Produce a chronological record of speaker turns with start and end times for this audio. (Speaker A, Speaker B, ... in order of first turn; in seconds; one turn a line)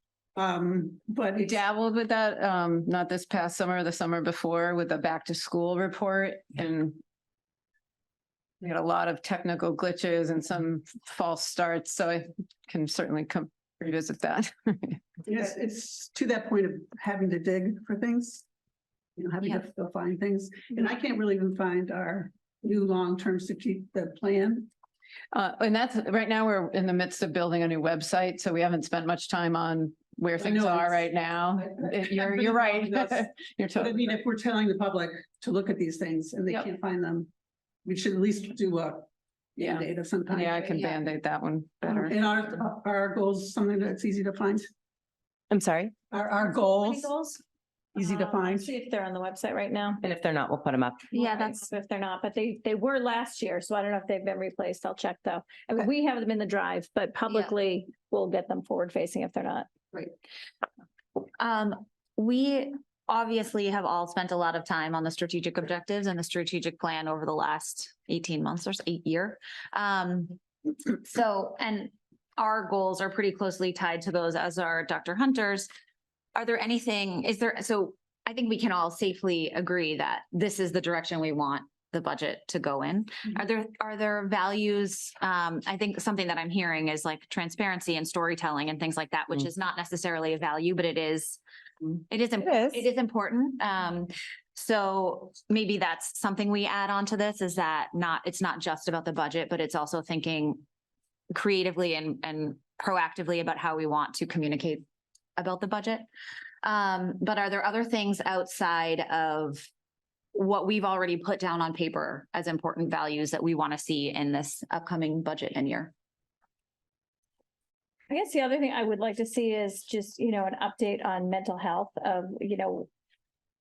Speaker A: 0.3-1.6
Speaker B: 1.4-7.0
Speaker B: 8.6-15.2
Speaker A: 15.3-18.4
Speaker A: 19.1-24.7
Speaker B: 25.3-34.2
Speaker A: 30.4-37.3
Speaker A: 37.8-40.9
Speaker B: 39.6-42.2
Speaker A: 41.8-44.7
Speaker C: 45.5-46.0
Speaker A: 46.1-47.1
Speaker D: 46.5-47.4
Speaker A: 47.9-48.7
Speaker D: 47.9-50.0
Speaker C: 50.0-51.1
Speaker D: 51.1-59.7
Speaker E: 51.2-51.6
Speaker E: 61.4-70.4
Speaker E: 70.9-75.7
Speaker E: 76.3-91.4
Speaker E: 92.1-100.6
Speaker C: 92.4-92.9
Speaker E: 101.3-104.8
Speaker E: 105.3-106.0
Speaker E: 106.6-109.7
Speaker E: 110.3-115.9
Speaker D: 118.1-122.9